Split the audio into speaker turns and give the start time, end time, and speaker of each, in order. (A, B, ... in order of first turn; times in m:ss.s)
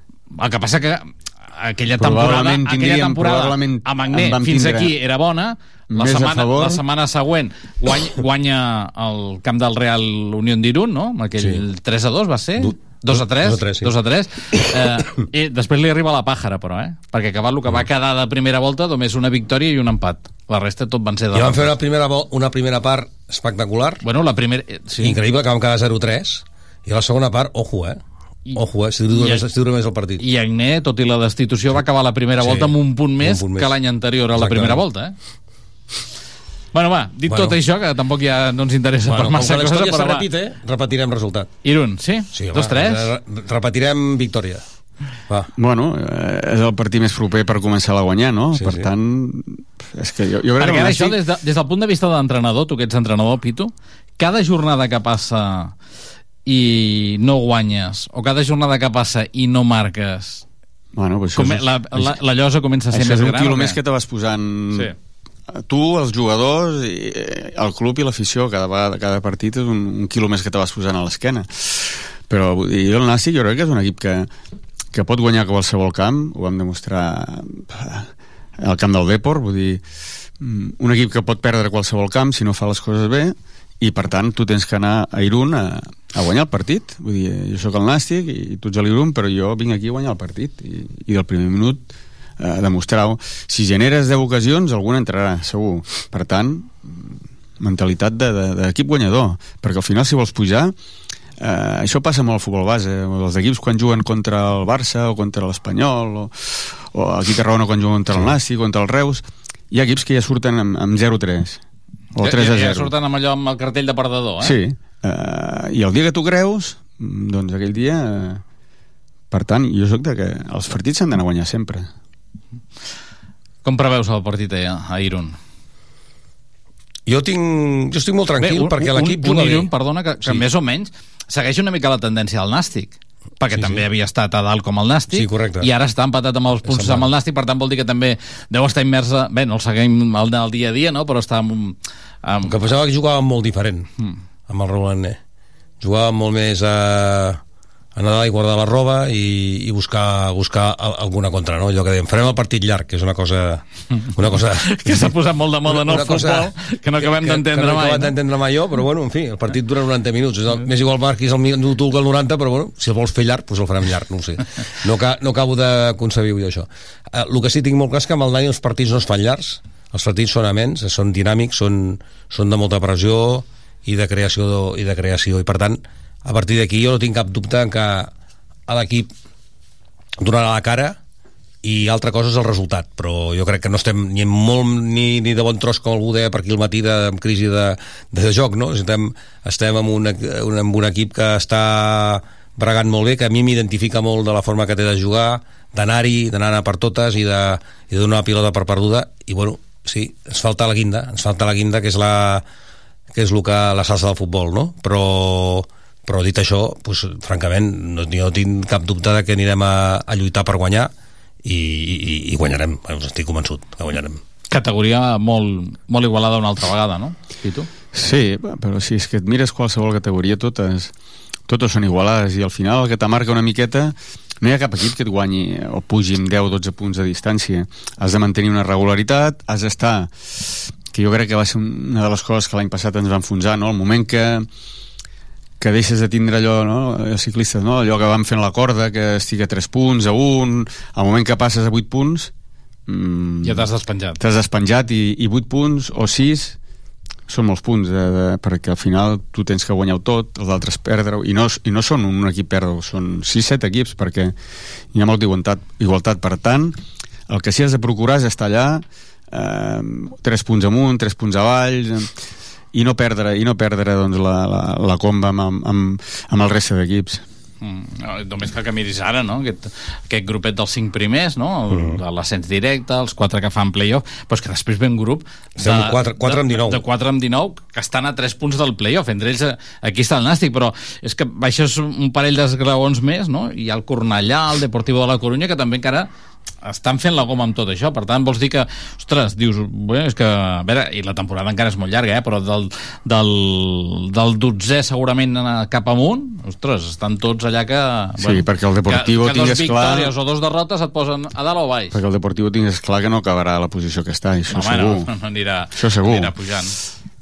0:00.3-0:21.7 A
0:02.0-0:04.9 B
0:05.9-0:06.8 B
0:12.6-0:13.9 C
0:21.3-0:24.0 C
0:24.0-0:25.2 A
0:25.0-0:28.0 C
0:28.5-0:30.2 C
0:29.1-0:29.4 A
0:30.2-0:35.1 A
0:32.4-0:33.7 C
0:34.3-0:34.8 C
0:36.7-0:40.3 A
0:37.3-0:37.6 C
0:39.1-0:41.5 C
0:41.6-0:43.1 A
0:42.3-0:44.6 C
0:45.6-0:51.2 B
0:48.6-0:48.9 C
0:50.6-0:55.7 A
0:56.4-1:00.4 A
1:00.9-1:02.1 B
1:01.3-1:03.8 A
1:02.9-1:04.9 B
1:05.5-1:14.3 B
1:14.9-1:18.1 B
1:18.6-1:19.8 B
1:20.4-1:40.7 B
1:41.4-1:51.6 B
1:52.2-1:52.9 B
1:52.2-1:54.6 A
1:54.4-1:58.4 B
1:59.3-2:01.9 B
2:03.6-2:05.4 A
2:07.1-2:09.7 C
2:08.4-2:22.5 A
2:13.5-2:13.8 C
2:15.1-2:15.7 C
2:16.6-2:17.1 C
2:22.4-2:23.9 C
2:24.5-2:25.2 C
2:25.8-2:27.4 C
2:27.9-2:33.6 C
2:34.1-2:35.1 C
2:34.6-2:38.1 A
2:35.7-2:58.1 C
2:58.7-2:59.1 C
3:00.2-3:01.0 C
3:01.6-3:22.4 C
3:23.1-3:30.9 C
3:31.4-3:34.2 C
3:34.5-3:37.7 A
3:37.9-3:40.9 B
3:41.5-3:54.5 B
3:55.6-4:02.3 B
4:02.9-4:03.7 B
4:03.4-4:04.2 A
4:04.2-4:06.6 B
4:07.3-4:14.3 B
4:14.9-4:16.7 B
4:17.3-4:22.1 B
4:22.7-4:27.2 B
4:27.6-4:46.1 A
4:31.7-4:32.0 C
4:35.6-4:36.8 C
4:46.6-5:02.0 A
4:58.2-5:00.1 B
5:01.9-5:05.1 B
5:04.5-5:06.8 A
5:05.7-5:06.3 B